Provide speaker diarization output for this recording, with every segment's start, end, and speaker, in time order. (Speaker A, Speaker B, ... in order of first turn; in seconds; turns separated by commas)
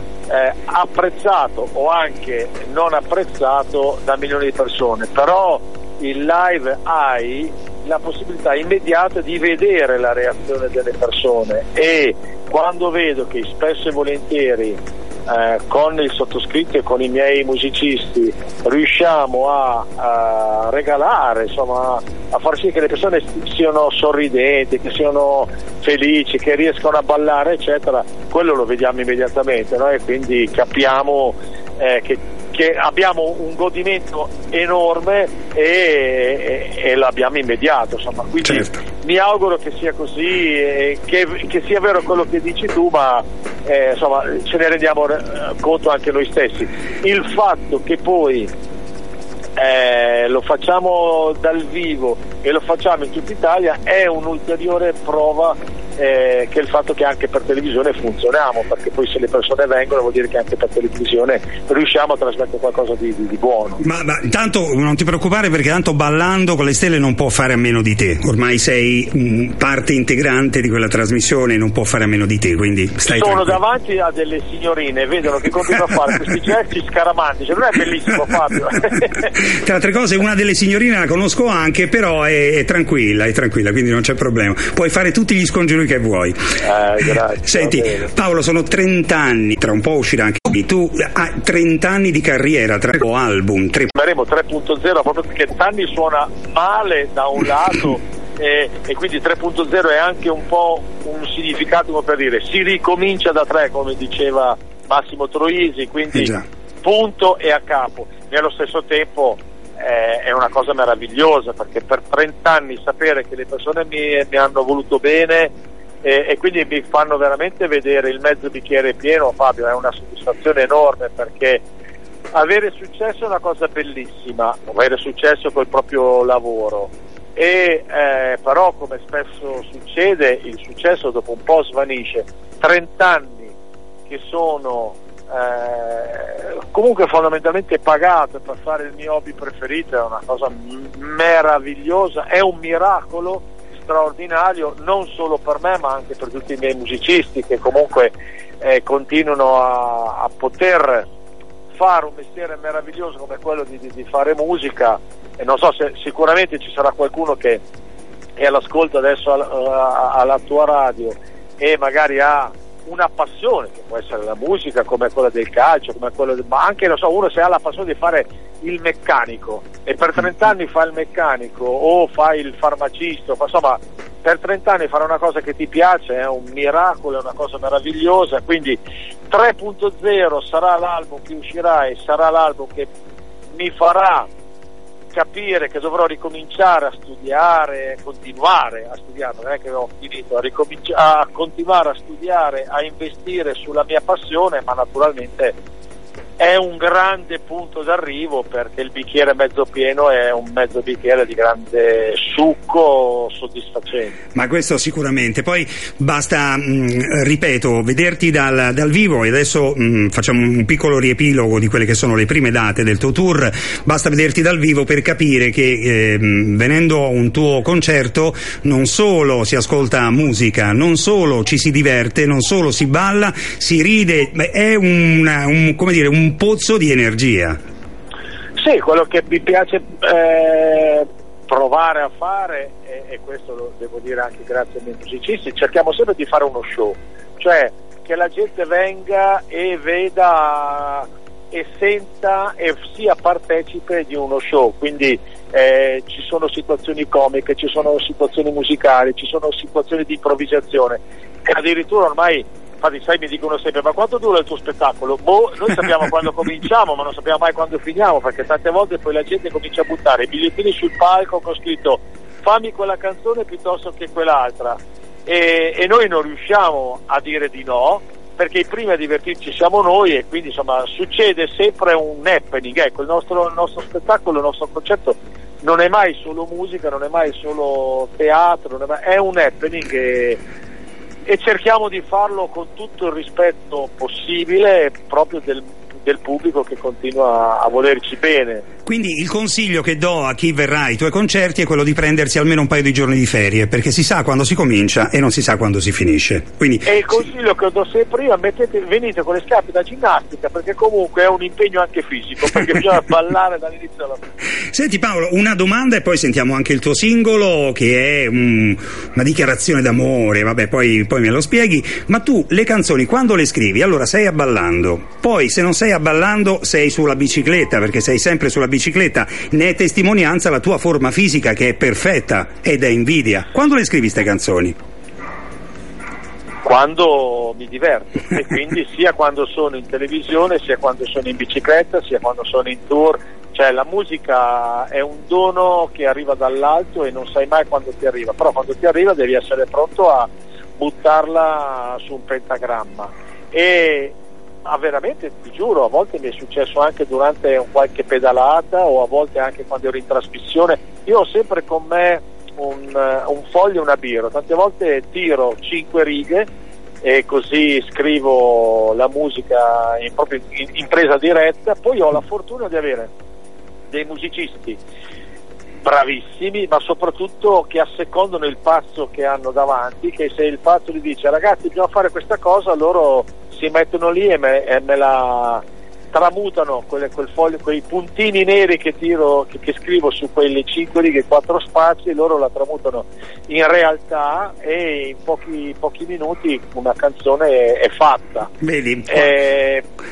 Speaker A: 0.3-48.5, Speaker B: 38.5-38.8, Speaker A: 49.6-63.8, Speaker B: 63.8-73.6, Speaker A: 73.1-79.3, Speaker B: 79.3-86.4, Speaker A: 86.6-88.1, Speaker B: 87.4-93.9, Speaker A: 93.9-115.5, Speaker B: 106.1-106.5, Speaker A: 116.0-121.6, Speaker A: 122.3-133.6, Speaker A: 134.1-151.1, Speaker A: 151.8-157.6, Speaker A: 158.4-182.9, Speaker A: 183.5-184.3, Speaker A: 185.1-195.5, Speaker A: 196.4-204.2, Speaker B: 204.3-227.6, Speaker A: 228.6-280.4, Speaker A: 281.3-288.6, Speaker B: 288.9-297.2, Speaker A: 296.9-304.2, Speaker B: 304.7-324.8, Speaker A: 326.6-356.5, Speaker A: 357.0-363.1, Speaker A: 363.9-364.8, Speaker A: 365.8-388.5, Speaker B: 388.6-389.4, Speaker A: 389.1-389.8